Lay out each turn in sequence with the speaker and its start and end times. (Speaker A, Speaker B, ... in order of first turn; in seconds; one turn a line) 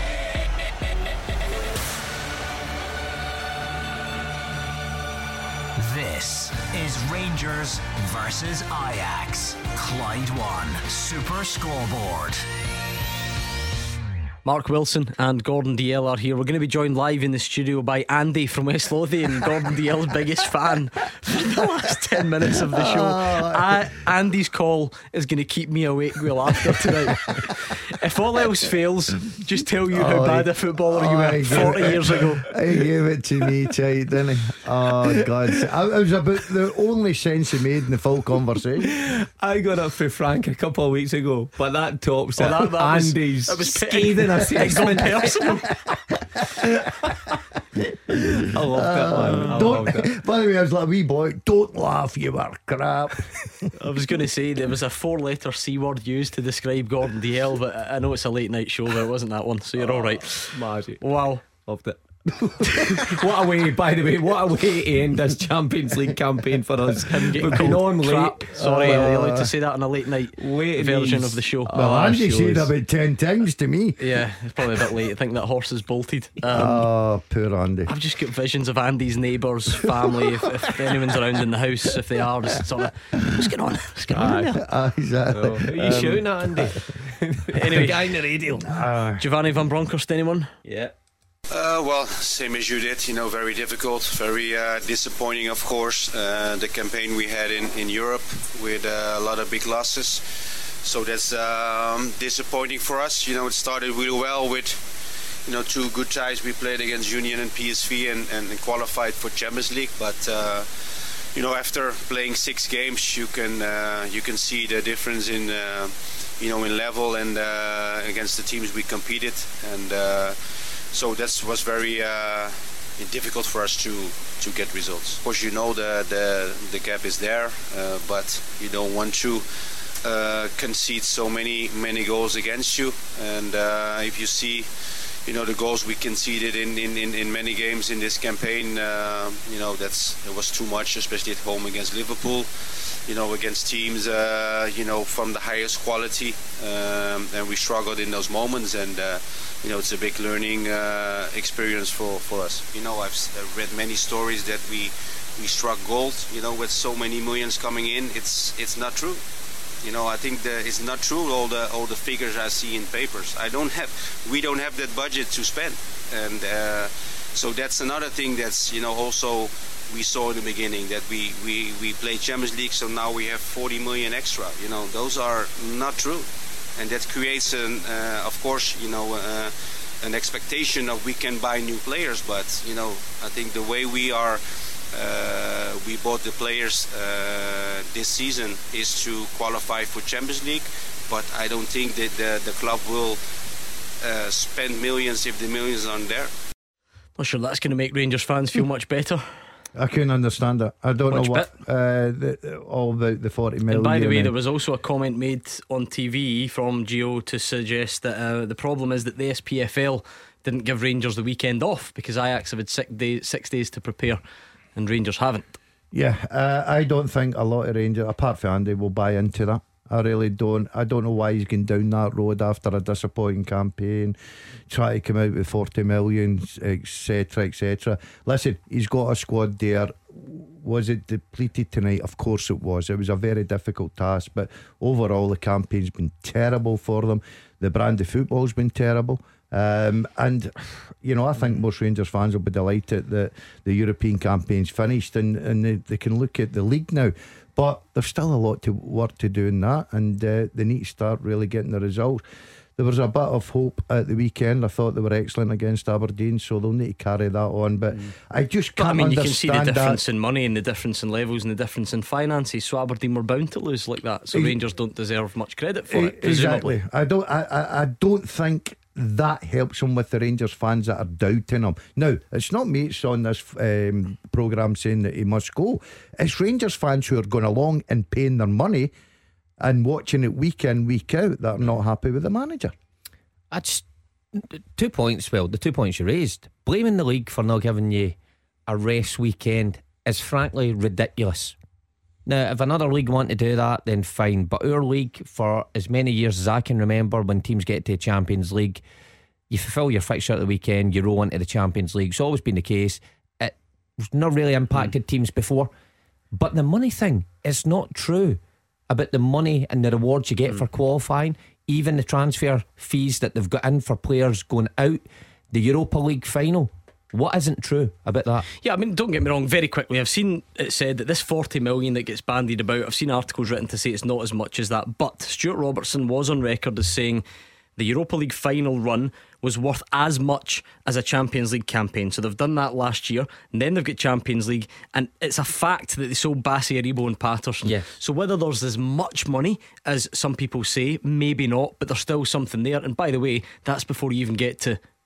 Speaker A: 5.8-12.4
Speaker B: 14.4-32.5
Speaker C: 22.7-23.6
Speaker C: 29.9-38.9
Speaker D: 38.9-45.6
Speaker B: 42.4-45.8
Speaker D: 48.4-50.1
Speaker C: 48.7-53.7
Speaker B: 49.2-49.8
Speaker B: 53.8-61.5
Speaker D: 59.8-69.3
Speaker B: 67.0-71.8
Speaker C: 68.6-69.4
Speaker D: 70.4-72.7
Speaker C: 71.7-74.0
Speaker B: 74.0-76.8
Speaker C: 76.5-77.9
Speaker B: 77.9-84.6
Speaker D: 84.1-84.5
Speaker C: 84.5-86.7
Speaker D: 85.3-88.8
Speaker B: 87.5-88.6
Speaker C: 88.7-89.2
Speaker B: 89.2-90.5
Speaker D: 90.7-90.9
Speaker E: 91.5-100.2
Speaker E: 100.8-104.8
Speaker E: 105.5-110.7
Speaker E: 111.3-120.4
Speaker E: 120.9-129.4
Speaker E: 130.0-134.7
Speaker E: 135.2-142.5
Speaker E: 143.1-159.2
Speaker E: 159.8-184.4
Speaker E: 184.9-193.2
Speaker E: 194.0-196.3
Speaker B: 197.2-199.2
Speaker C: 199.7-204.3
Speaker B: 201.1-201.5
Speaker B: 203.7-214.2
Speaker B: 214.8-215.6
Speaker C: 215.9-224.2
Speaker C: 224.7-252.2
Speaker C: 252.8-260.0
Speaker B: 258.8-266.7
Speaker C: 264.3-264.6
Speaker C: 265.9-278.9
Speaker C: 279.6-282.7
Speaker D: 283.5-288.1
Speaker D: 288.7-291.6
Speaker D: 292.2-298.8
Speaker D: 299.5-305.7
Speaker D: 306.3-318.4
Speaker B: 318.6-327.2
Speaker B: 327.8-344.8
Speaker D: 337.6-337.9